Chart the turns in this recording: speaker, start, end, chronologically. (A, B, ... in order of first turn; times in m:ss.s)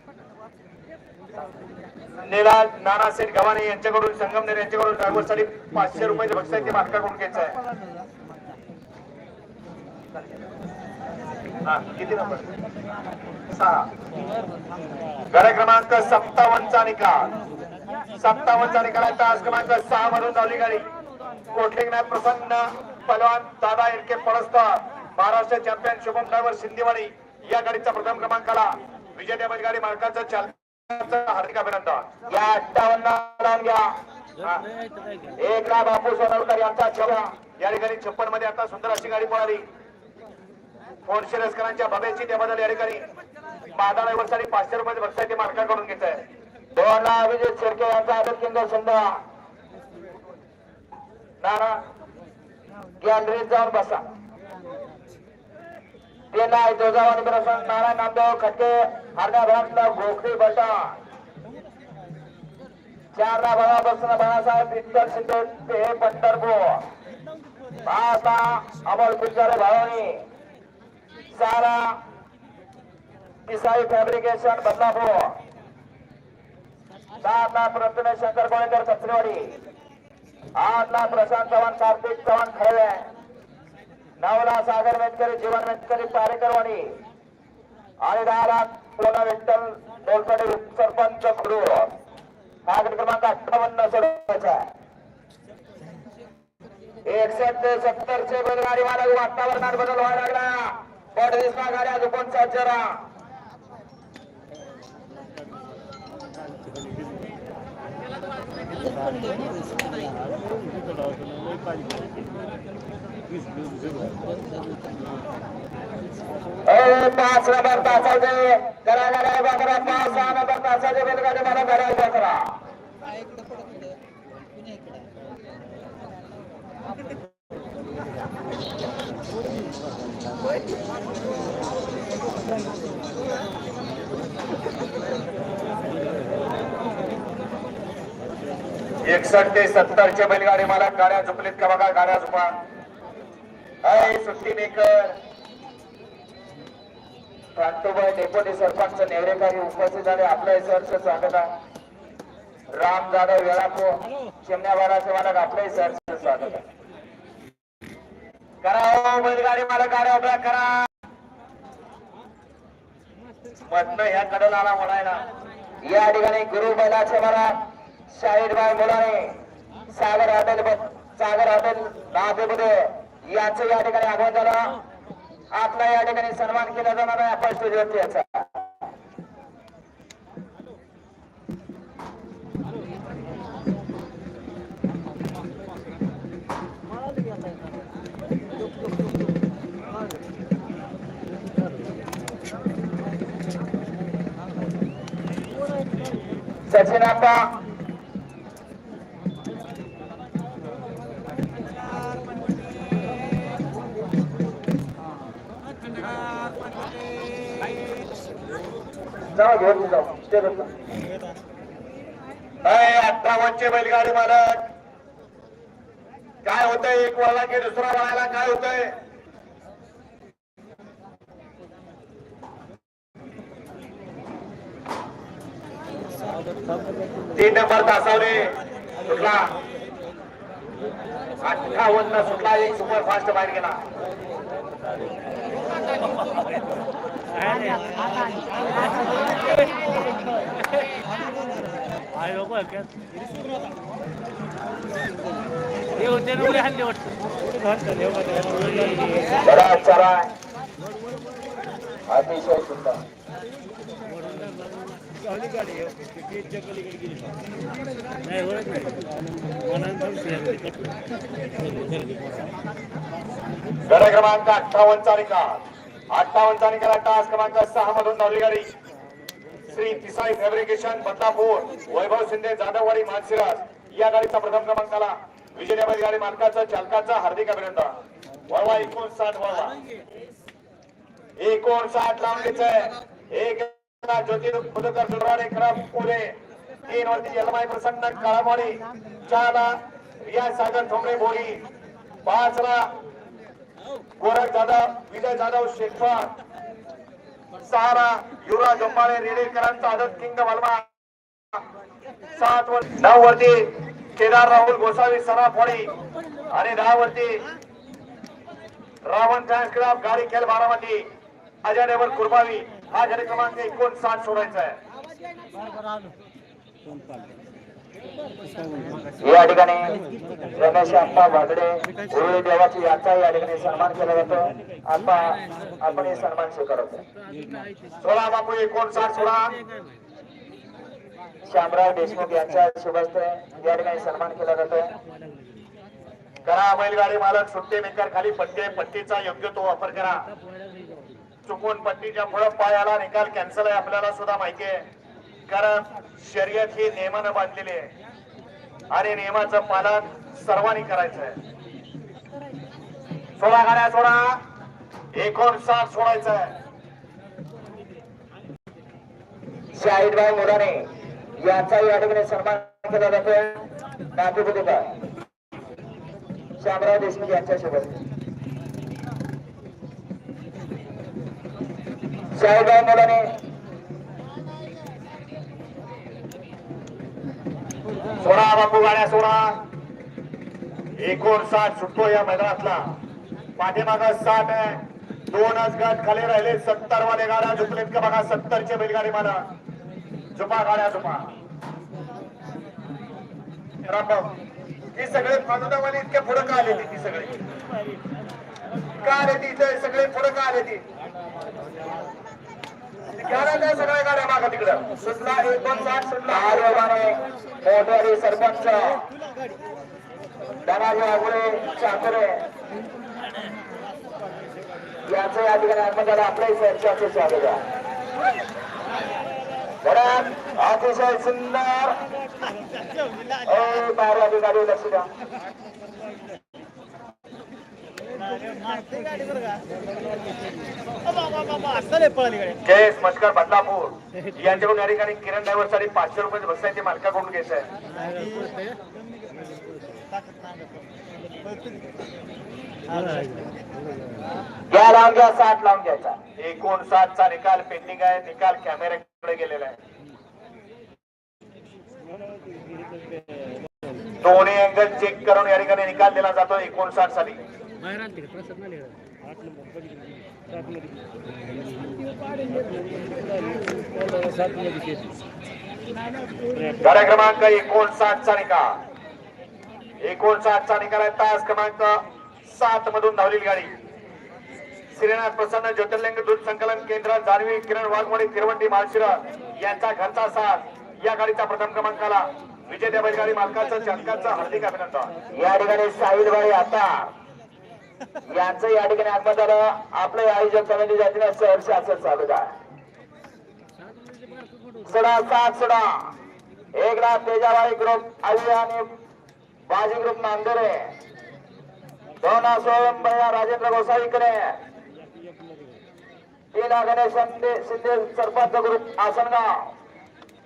0:02.2-0:07.6 A
0:11.6-0:12.4 A
0:13.5-0:13.9 A
0:15.3-0:17.3 A
0:18.2-0:20.9 A
0:21.5-0:32.1 A
0:32.3-0:34.7 B
0:35.4-0:37.3 B
0:37.6-0:39.6 A
0:41.0-0:43.0 A
0:43.8-0:46.2 A
0:46.8-0:49.2 B
0:51.4-0:51.8 B
0:53.0-0:54.0 B
0:56.3-1:01.0 B
1:03.1-1:06.9 B
1:07.8-1:10.3 B
1:11.3-1:12.0 B
1:13.5-1:15.4 B
1:17.2-1:19.6 B
1:20.6-1:23.1 B
1:24.2-1:27.0 B
1:28.0-1:31.9 B
1:32.7-1:34.7 B
1:37.1-1:43.0 B
1:46.7-1:47.0 C
1:50.2-1:52.4 C
1:53.3-1:54.2 C
1:56.7-2:02.6 B
2:19.0-2:22.6 A
2:23.8-2:25.2 B
2:27.6-2:31.5 B
2:32.7-2:36.6 B
2:38.6-2:40.8 B
2:43.7-2:45.2 A
2:45.8-2:54.8 B
2:55.5-2:58.6 B
3:16.7-3:17.5 B
3:29.3-3:30.7 B
3:32.6-3:34.6 A
3:36.4-3:39.0 A
3:47.4-3:48.6 A
3:49.1-3:49.4 B
3:49.1-3:49.3 A
3:51.4-3:53.8 A
3:51.7-3:52.6 B
3:57.4-3:57.9 C
4:02.3-4:02.9 C
4:06.0-4:09.3 C
4:09.4-4:10.3 B
4:12.1-4:13.0 B
4:14.2-4:17.3 C
4:18.3-4:20.9 C
4:21.6-4:22.4 C
4:23.9-4:25.6 A
4:26.1-4:28.7 A
4:29.7-4:37.9 A
4:38.5-4:39.8 A
4:41.4-4:46.3 A
4:46.9-4:51.6 A
4:52.2-4:52.9 A
4:54.2-4:56.3 A
4:57.6-5:00.9 A
5:02.4-5:05.9 A
5:06.5-5:07.4 A
5:09.0-5:11.1 A
5:11.6-5:14.8 A
5:19.2-5:20.0 B
5:20.6-5:27.0 B
5:28.0-5:29.6 A
5:31.5-5:34.9 B
5:36.4-5:40.2 A
5:41.5-5:44.8 A
5:45.5-5:47.9 A
5:48.9-5:51.4 A
5:53.4-5:54.4 A
5:55.1-5:56.5 A
5:59.7-6:05.0 B
6:06.6-6:08.0 B
6:12.3-6:13.3 B
6:18.2-6:19.6 A
6:21.0-6:22.8 A
6:23.6-6:29.4 A
6:30.4-6:31.3 A
6:33.9-6:34.3 A
6:35.0-6:37.4 A
6:39.0-6:40.8 A
6:43.1-6:46.7 A
6:45.0-6:49.0 B
6:50.6-6:52.4 B
6:55.0-6:57.6 B
6:59.8-7:02.0 B
7:03.4-7:05.1 B
7:12.6-7:17.7 A
7:18.2-7:18.5 C
7:23.2-7:23.5 C
7:24.7-7:26.2 B
7:26.4-7:29.8 A
7:32.2-7:33.9 C
7:34.2-7:37.4 A
7:38.0-7:41.1 C
7:41.7-7:45.2 C
7:46.8-7:48.8 A
7:50.0-7:53.7 A
7:54.9-8:05.1 A
8:05.3-8:07.1 B
8:08.3-8:12.5 B
8:14.8-8:16.1 B
8:16.8-8:18.9 B
8:19.7-8:20.9 B
8:22.2-8:24.6 B
8:25.1-8:25.7 C
8:26.5-8:29.7 B